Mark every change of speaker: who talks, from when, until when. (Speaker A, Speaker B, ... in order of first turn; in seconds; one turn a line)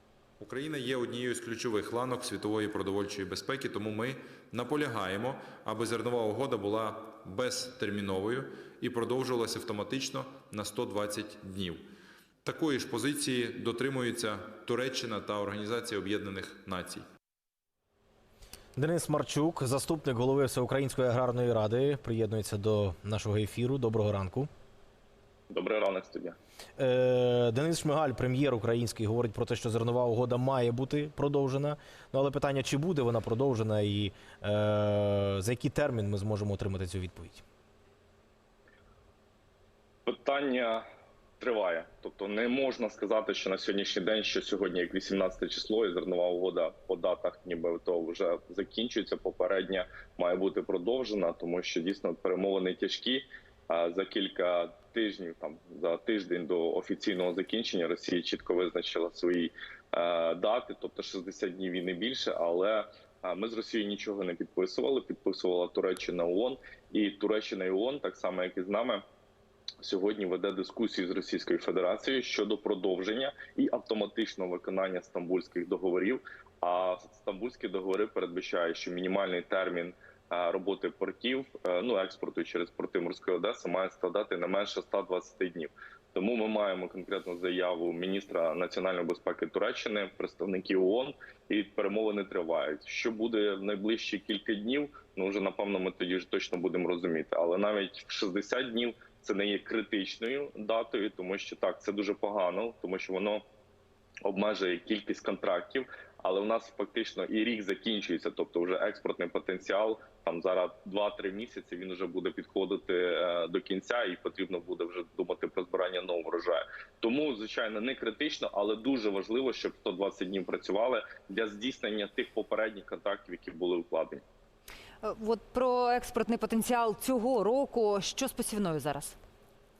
Speaker A: 0.4-11.8
Speaker A: 12.4-17.1
Speaker B: 18.8-24.5
Speaker C: 25.5-26.4
Speaker B: 26.8-37.4
Speaker C: 40.1-40.8
Speaker C: 41.4-69.0
Speaker C: 69.8-103.4
Speaker C: 104.2-124.2
Speaker D: 125.0-129.2